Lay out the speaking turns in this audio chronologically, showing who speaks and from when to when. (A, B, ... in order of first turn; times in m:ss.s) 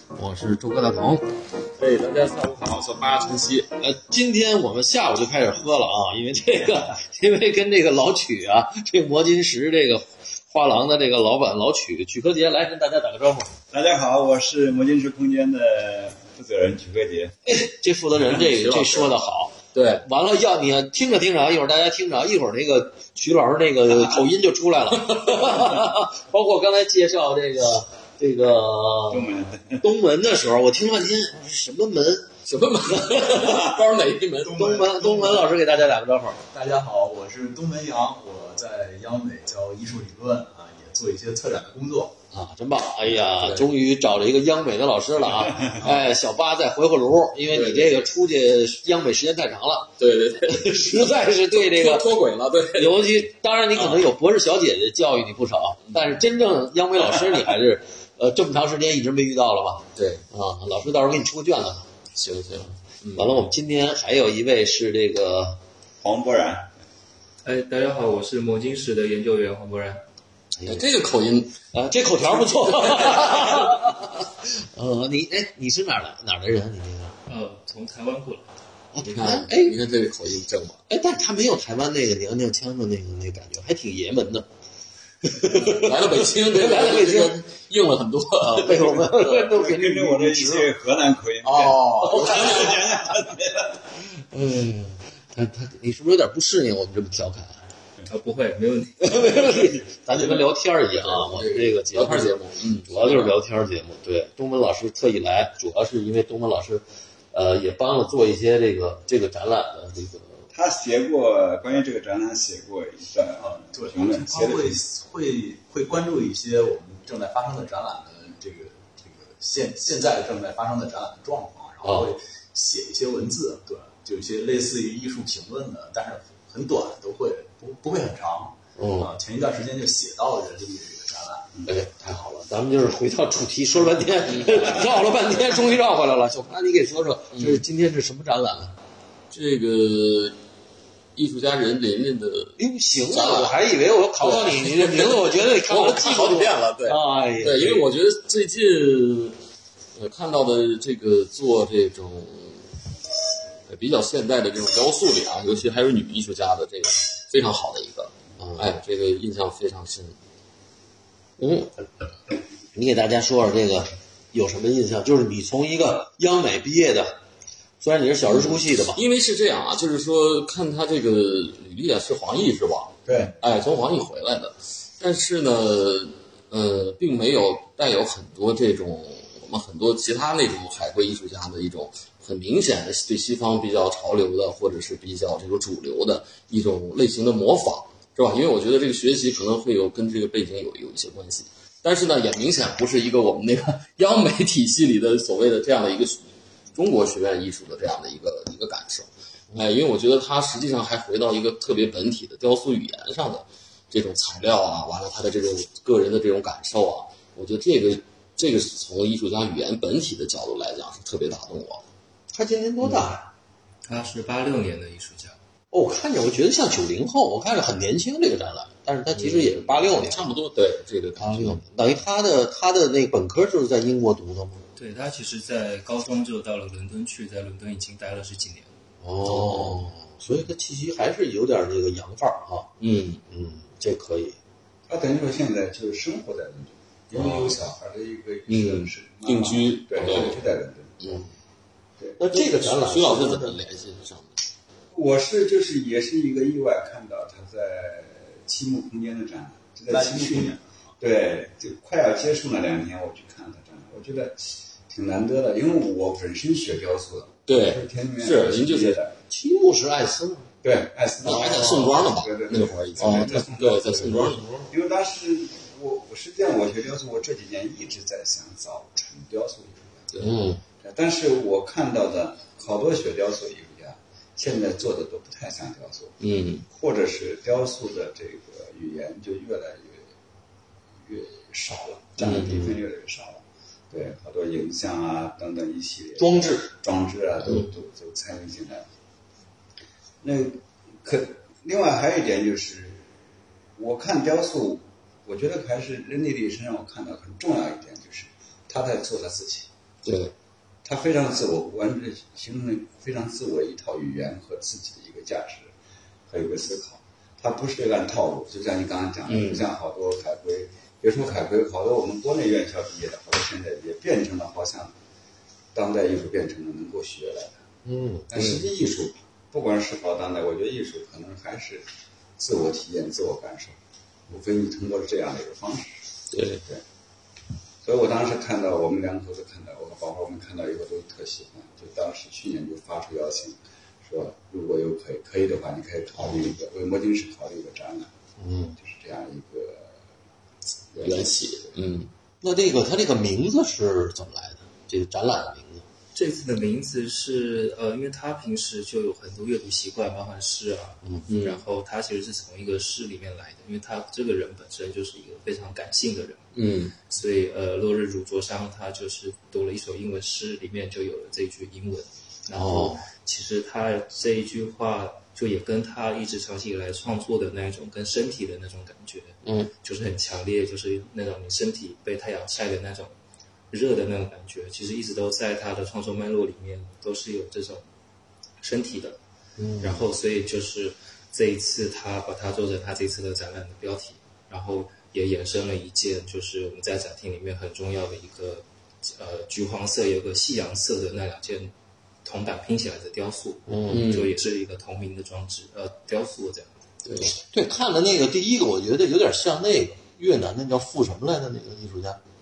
0:00.1-0:01.3 A
0:01.8-0:03.7 B
0:03.8-0:13.5 A
0:13.7-0:17.4 C
0:17.4-0:32.3 A
0:18.3-0:19.1 B
0:19.7-0:20.0 B
0:29.1-0:29.8 C
0:32.4-0:34.8 B
0:32.9-0:33.7 A
0:34.4-0:35.6 D
0:34.5-0:36.4 A
0:36.5-0:42.2 D
0:42.3-0:52.1 A
0:43.4-0:43.7 B
0:47.5-0:48.0 B
0:50.0-0:53.2 B
0:52.7-1:01.9 A
0:53.8-0:54.0 B
0:59.9-1:00.2 B
1:02.1-1:03.4 B
1:03.1-1:05.6 A
1:06.0-1:06.7 C
1:07.4-1:10.0 E
1:10.5-1:10.9 A
1:10.6-1:13.9 B
1:11.7-1:17.2 A
1:17.2-1:18.5 E
1:18.9-1:19.8 A
1:19.0-1:20.8 B
1:20.9-1:24.5 A
1:25.2-1:27.5 A
1:25.4-1:29.5 B
1:28.4-1:30.7 A
1:29.5-1:33.4 C
1:31.4-1:33.3 A
1:32.0-1:32.8 B
1:34.1-1:37.6 A
1:38.0-1:39.8 E
1:39.0-1:50.4 A
1:41.0-1:43.4 B
1:50.5-1:54.8 C
1:53.4-2:11.6 D
2:01.8-2:02.1 A
2:08.8-2:09.1 A
2:11.7-2:18.8 A
2:14.3-2:14.8 B
2:17.3-2:17.6 B
2:19.3-2:20.3 B
2:21.2-2:22.6 B
2:22.6-2:27.8 A
2:23.1-2:23.6 B
2:24.2-2:29.4 B
2:29.9-2:32.7 B
2:33.7-2:40.2 B
2:38.4-2:38.7 A
2:41.4-2:41.8 A
2:42.7-2:47.2 A
2:47.8-2:49.0 A
2:48.2-3:31.8 B
2:53.1-2:53.3 C
3:32.3-3:33.3 A
3:32.8-3:33.1 B
3:33.8-3:35.4 E
3:35.7-3:40.3 A
3:39.1-3:41.6 B
3:41.2-3:44.6 A
3:44.8-3:48.7 E
3:49.0-3:52.7 A
3:49.2-3:49.8 B
3:52.8-3:53.2 B
3:53.3-3:54.4 A
3:54.9-4:01.2 C
3:57.1-3:57.6 A
3:58.5-4:01.2 B
4:02.2-4:03.6 A
4:02.3-4:04.4 B
4:04.9-4:19.1 C
4:09.9-4:10.8 D
4:17.5-4:19.0 B
4:19.3-4:20.5 A
4:20.6-4:30.1 C
4:21.2-4:24.4 B
4:21.2-4:22.2 A
4:23.0-4:23.4 A
4:24.0-4:24.7 A
4:30.2-4:30.6 A
4:30.8-4:36.2 C
4:36.2-4:36.6 B
4:36.7-4:40.0 C
4:41.0-4:48.9 C
4:42.2-4:42.8 B
4:46.2-4:46.7 A
4:47.4-4:47.7 B
4:50.2-4:53.0 C
4:53.8-4:59.7 C
5:00.0-5:00.3 B
5:00.8-5:05.7 C
5:06.3-5:14.9 C
5:09.3-5:09.6 B
5:15.7-5:17.6 C
5:17.8-5:18.3 A
5:18.3-5:21.8 C
5:18.3-5:18.7 B
5:22.4-5:23.8 C
5:24.3-5:26.0 C
5:26.3-5:26.6 B
5:27.8-5:38.1 C
5:38.4-5:38.8 A
5:38.8-5:39.9 C
5:40.9-5:41.4 C
5:41.0-5:42.1 B
5:42.4-5:45.8 A
5:46.1-6:13.1 E
5:51.3-5:51.6 B
5:56.5-5:56.9 B
6:02.5-6:03.0 A
6:13.7-6:17.8 E
6:18.6-6:19.2 E
6:19.6-6:20.0 A
6:19.8-6:31.7 E
6:32.2-6:36.8 E
6:33.7-6:34.1 A
6:33.9-6:34.3 B
6:37.0-6:37.3 B
6:37.3-6:42.2 A